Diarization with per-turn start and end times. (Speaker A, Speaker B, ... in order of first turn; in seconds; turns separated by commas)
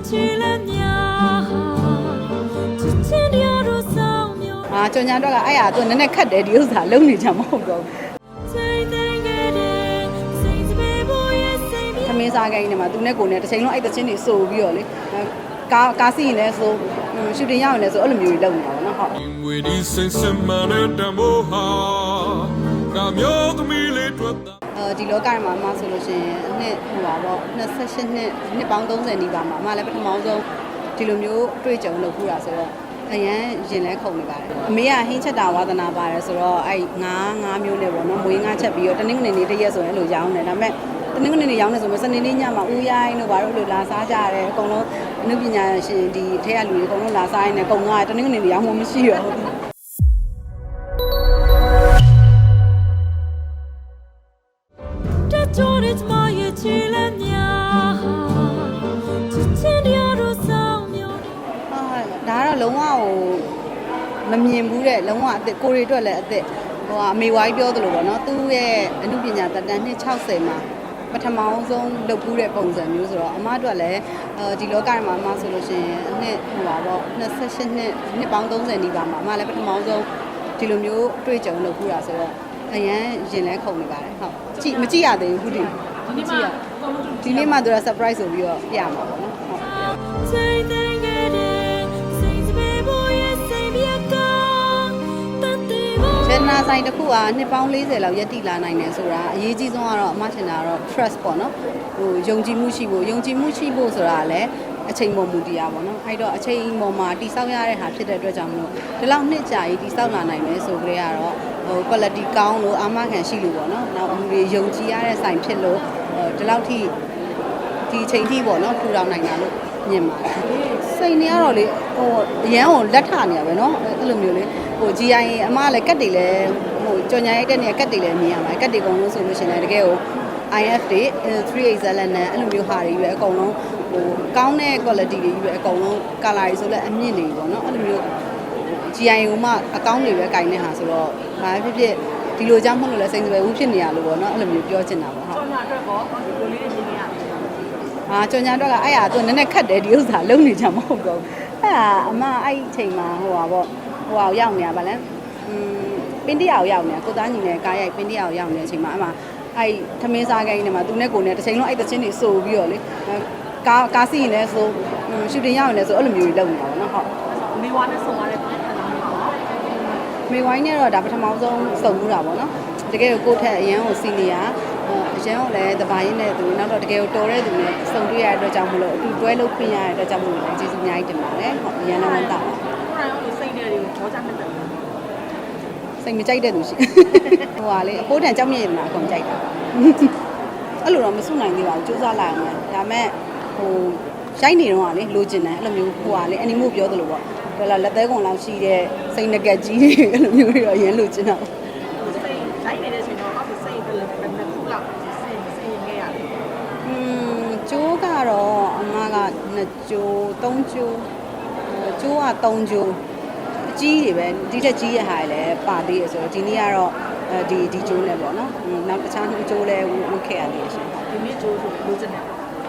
Speaker A: 0.7-4.7, Speaker B: 4.7-8.1, Speaker A: 8.4-12.0, Speaker B: 12.1-19.1, Speaker C: 19.1-24.6, Speaker B: 24.7-30.4, Speaker B: 31.0-49.5, Speaker A: 55.3-61.3, Speaker B: 61.7-63.5, Speaker B: 64.2-80.1, Speaker B: 80.6-86.6, Speaker D: 84.7-85.0, Speaker D: 85.8-87.5, Speaker B: 87.2-89.7, Speaker A: 90.2-96.1, Speaker B: 96.2-117.0, Speaker B: 117.9-145.4, Speaker D: 145.3-147.4, Speaker B: 148.1-167.1, Speaker D: 167.2-169.6, Speaker B: 170.3-182.6, Speaker D: 181.9-184.8, Speaker B: 186.0-190.2, Speaker B: 190.8-201.5, Speaker D: 202.0-206.2, Speaker B: 206.8-211.1, Speaker B: 211.7-213.0, Speaker B: 213.6-221.1, Speaker D: 221.1-222.4